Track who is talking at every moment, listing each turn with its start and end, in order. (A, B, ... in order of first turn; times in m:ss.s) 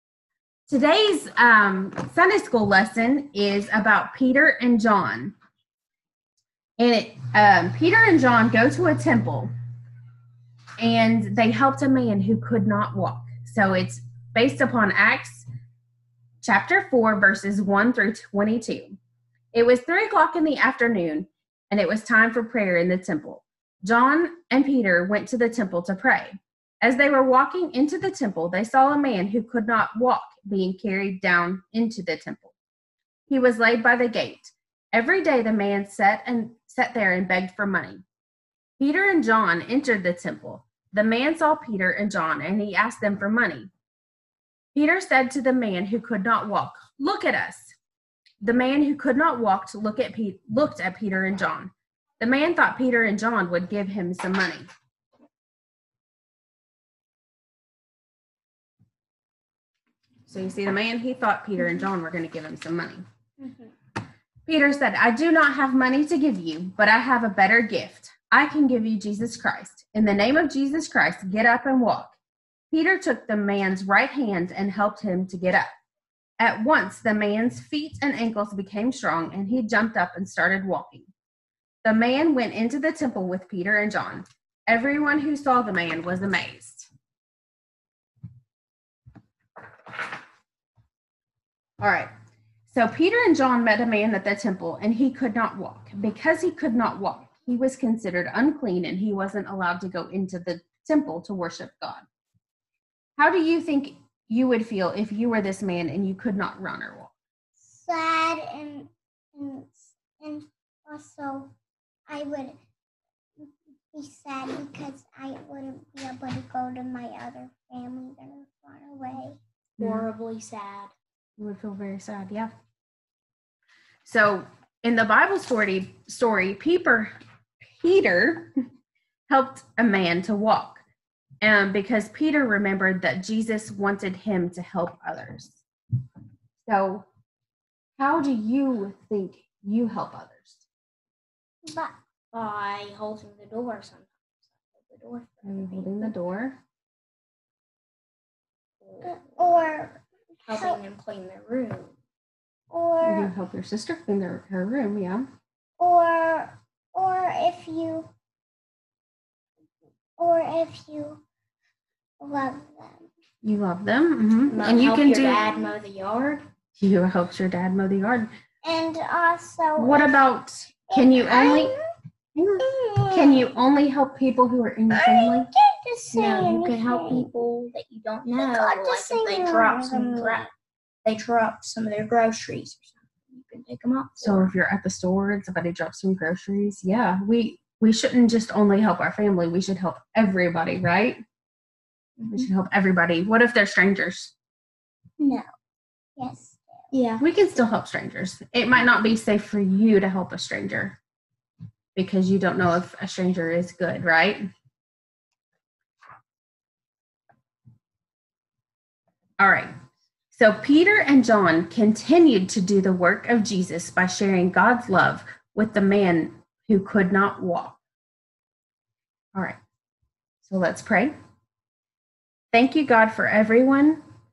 0:00.7-0:05.4 A
0:06.8-0:09.5 A
0:10.8-0:15.5 A
0:16.4-0:19.0 A
0:19.5-0:32.5 A
0:33.3-0:38.0 A
0:38.8-0:43.7 A
0:44.7-0:47.7 A
0:48.4-0:54.7 A
1:00.3-1:03.0 A
1:04.5-1:12.2 A
1:12.7-1:15.7 A
1:16.4-1:21.1 A
1:21.8-1:26.9 A
1:31.8-1:32.1 A
1:32.7-1:42.1 A
1:43.2-1:47.1 A
1:47.6-1:51.5 B
1:52.1-1:52.6 B
1:53.4-1:59.4 B
1:59.8-2:00.1 A
1:59.8-2:00.9 C
2:01.4-2:02.5 A
2:04.0-2:07.1 A
2:07.6-2:08.5 A
2:09.3-2:10.8 A
2:11.4-2:15.6 A
2:16.6-2:17.1 A
2:18.0-2:20.7 A
2:21.7-2:22.0 B
2:22.3-2:26.1 C
2:25.4-2:26.6 A
2:28.8-2:29.9 C
2:29.0-2:30.0 B
2:30.5-2:31.9 C
2:30.5-2:30.8 B
2:32.7-2:33.3 B
2:33.0-2:35.3 A
2:35.8-2:38.1 B
2:40.2-2:41.2 B
2:42.2-2:43.1 B
2:43.4-2:45.4 A
2:44.5-2:46.4 C
2:46.8-2:48.3 A
2:48.6-2:50.2 B
2:49.8-2:51.7 A
2:50.9-2:51.8 B
2:52.4-2:55.5 A
2:52.6-2:53.5 B
2:54.9-2:57.3 B
2:56.1-3:00.5 C
2:58.4-3:00.5 B
3:01.0-3:04.6 C
3:04.2-3:11.2 A
3:12.2-3:12.5 C
3:12.3-3:14.3 A
3:15.2-3:15.5 B
3:16.2-3:16.9 B
3:16.9-3:17.2 C
3:17.2-3:21.0 A
3:22.0-3:24.5 A
3:29.4-3:29.7 A
3:30.3-3:37.8 A
3:40.4-3:41.1 A
3:42.5-3:44.0 A